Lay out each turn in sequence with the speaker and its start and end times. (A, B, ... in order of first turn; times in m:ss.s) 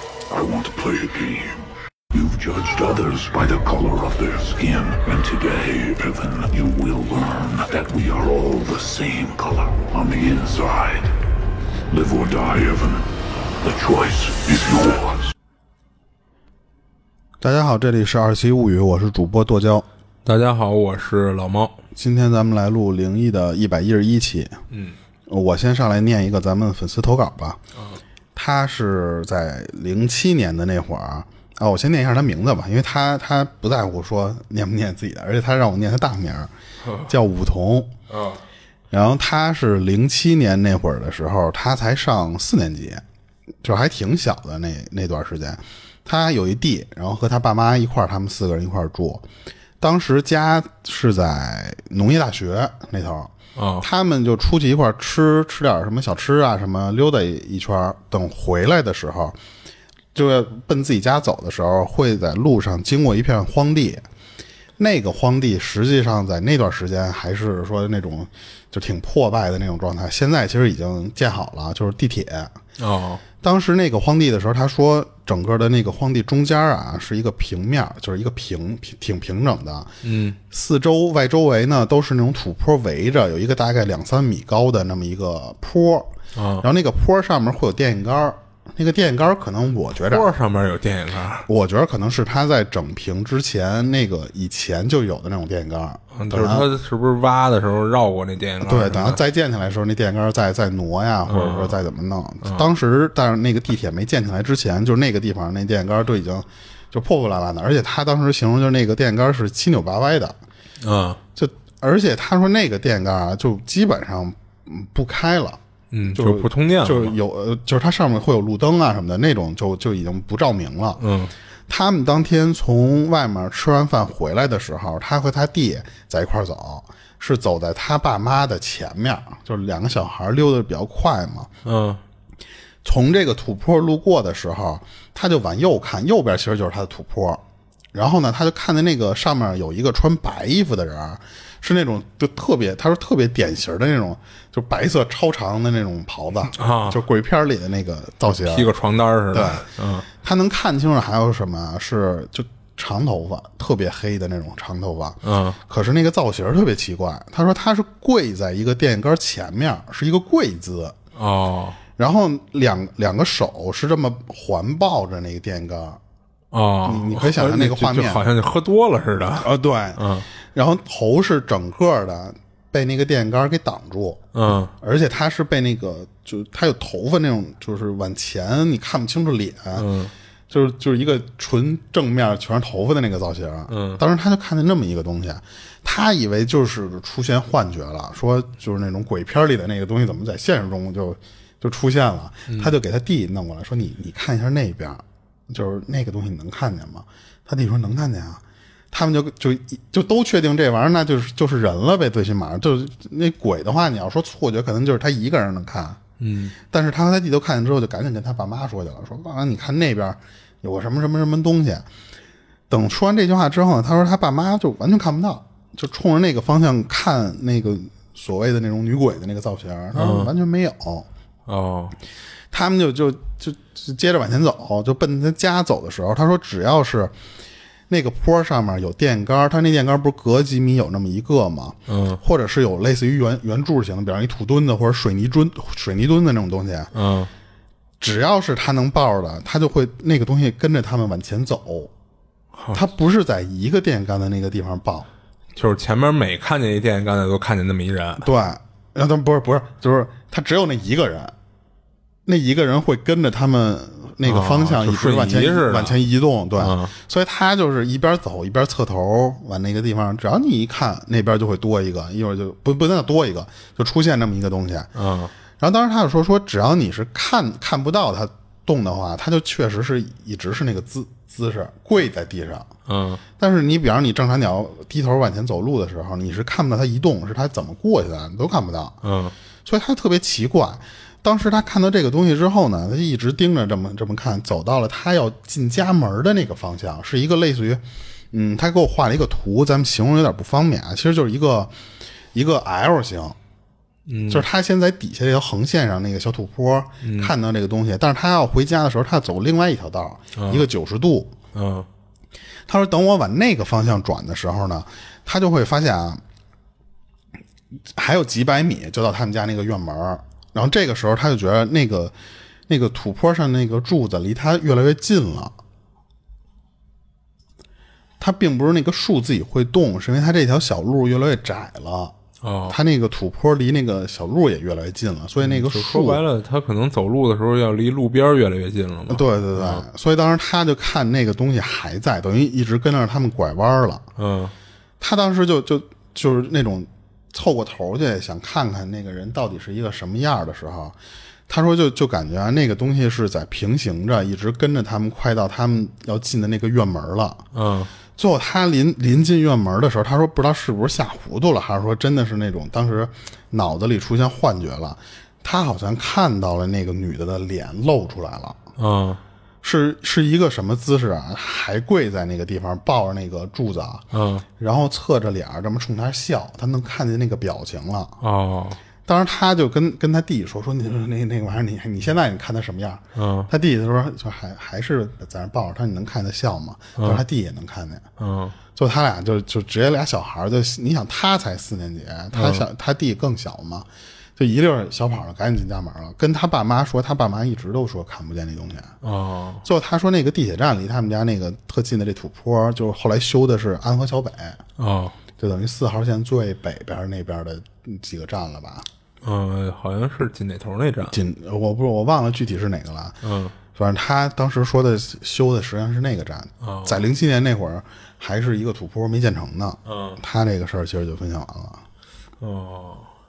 0:00.3-0:01.6 A
0:02.1-0:11.1 A
0:11.9-0:13.1 A
0:13.6-0:15.2 A
0:17.4-0:19.9 B
0:20.2-0:21.8 C
0:22.0-0:24.6 B
0:24.7-0:25.0 C
0:25.3-0:27.6 B
0:27.8-0:28.0 C
0:28.4-0:36.5 B
0:36.8-0:37.1 C
0:37.1-0:37.9 B
0:38.1-0:38.4 C
0:38.9-0:43.0 B
0:43.6-0:49.3 B
0:49.8-0:59.4 B
0:53.6-0:53.9 C
1:00.1-1:04.0 B
1:04.8-1:12.5 B
1:12.8-1:13.2 C
1:13.4-1:19.9 B
1:20.0-1:20.4 C
1:20.5-1:30.3 B
1:26.4-1:26.6 C
1:30.1-1:31.5 C
1:31.5-1:36.7 B
1:36.1-1:39.2 C
1:38.6-1:50.4 B
1:41.3-1:41.8 C
1:50.8-1:51.2 C
1:51.4-2:01.0 B
1:55.9-1:57.2 C
2:01.0-2:01.3 C
2:01.7-2:11.5 B
2:11.6-2:12.0 C
2:12.8-2:17.4 B
2:17.9-2:28.7 B
2:26.6-2:27.0 C
2:28.5-2:30.1 C
2:29.3-2:41.0 B
2:35.2-2:35.6 C
2:41.2-2:41.8 C
2:42.0-2:46.0 B
2:46.5-2:50.3 C
2:46.9-2:48.3 B
2:49.4-2:59.9 B
2:54.3-2:54.7 C
2:59.8-3:00.1 C
3:00.5-3:26.0 B
3:03.7-3:04.0 C
3:12.5-3:12.7 C
3:26.2-3:26.6 C
3:26.6-3:31.9 B
3:32.7-3:41.1 B
3:40.0-3:40.3 C
3:41.5-3:42.0 C
3:42.5-3:47.2 B
3:47.9-3:56.9 B
3:51.9-3:52.2 C
3:56.9-3:57.3 C
3:58.0-4:01.9 B
4:02.6-4:02.8 C
4:02.7-4:05.1 B
4:05.6-4:08.3 C
4:08.2-4:11.3 B
4:12.3-4:24.9 B
4:14.2-4:16.0 C
4:16.6-4:16.9 C
4:25.0-4:25.3 C
4:25.6-4:32.7 B
4:32.9-4:33.2 C
4:33.4-4:39.0 B
4:39.0-4:39.3 C
4:39.6-4:51.8 B
4:52.3-4:53.4 B
4:54.1-4:54.4 C
4:54.3-5:01.3 B
4:57.0-4:57.3 C
5:00.4-5:00.6 C
5:01.5-5:01.9 C
5:02.7-5:06.2 B
5:07.9-5:12.2 B
5:12.7-5:15.6 B
5:18.2-5:22.2 B
5:22.4-5:22.8 C
5:22.7-5:26.2 B
5:25.4-5:29.8 C
5:29.1-5:34.1 B
5:34.2-5:34.5 C
5:35.0-5:41.0 B
5:41.5-5:47.4 B
5:47.5-5:47.9 C
5:48.2-5:58.6 B
5:58.8-5:59.2 C
5:59.6-6:04.0 B
6:04.1-6:04.4 C
6:04.6-6:08.2 B
6:08.2-6:08.8 C
6:09.1-6:18.1 B
6:13.2-6:13.5 C
6:17.0-6:17.2 C
6:18.2-6:18.6 C
6:18.8-6:29.0 B
6:22.3-6:22.6 C
6:29.0-6:29.6 C
6:29.6-6:34.6 B
6:34.8-6:35.2 C
6:35.4-6:38.9 B
6:39.2-6:41.2 C
6:41.1-6:43.2 B
6:43.2-6:43.6 C
6:43.7-6:51.8 B
6:46.6-6:47.0 C
6:49.8-6:50.2 C
6:52.4-6:53.1 C